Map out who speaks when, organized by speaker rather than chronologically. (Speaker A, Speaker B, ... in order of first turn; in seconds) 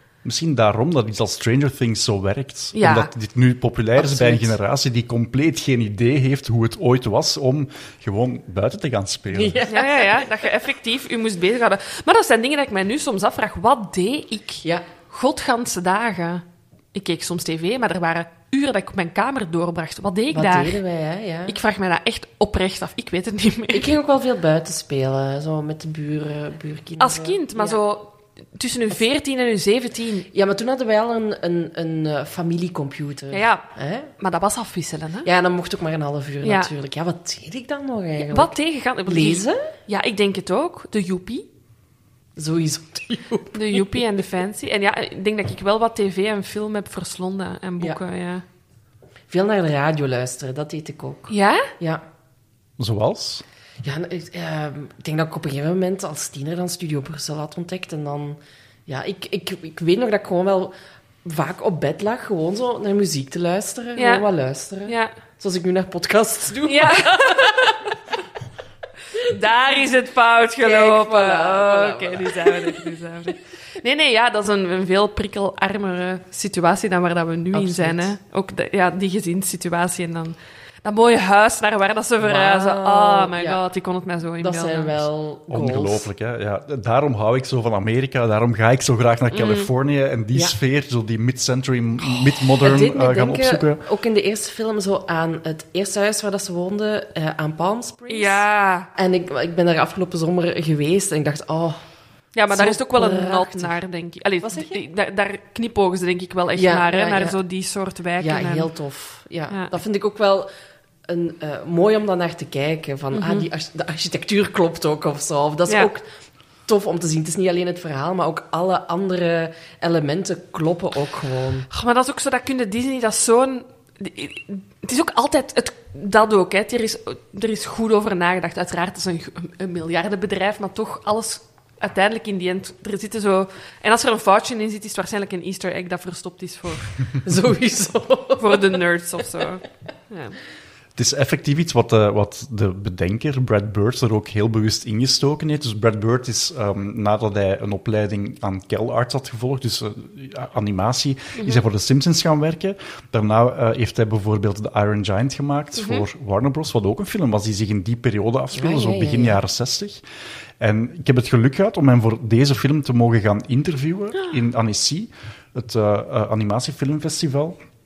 Speaker A: 0.2-9.6, 52.8-53.4, 85.5-93.8, 141.0-160.0, 160.6-167.6
Speaker B: 2.8-3.1, 9.7-20.8, 21.5-23.9, 27.0-30.3, 33.3-35.3, 36.4-36.7, 38.3-41.5, 43.5-48.4, 51.3-51.7, 64.0-64.2, 64.9-65.1, 66.6-67.9, 69.1-85.0, 89.3-89.7, 98.1-98.9, 102.3-108.7, 113.1-113.5, 121.7-136.9, 138.4-140.4, 151.4-151.6, 155.8-156.1
Speaker C: 4.0-4.5, 9.3-10.3, 20.3-21.6, 23.7-27.8, 30.3-34.1, 35.2-38.5, 39.1-39.7, 42.4-44.0, 49.3-52.0, 53.8-60.7, 61.2-67.8, 70.6-72.9, 77.5-78.1, 82.2-83.6, 84.4-86.1, 92.6-98.4, 99.0-101.8, 102.5-103.7, 104.4-104.8, 106.6-107.4, 108.2-110.5, 111.1-116.0, 116.7-121.7, 137.2-138.8, 158.5-159.4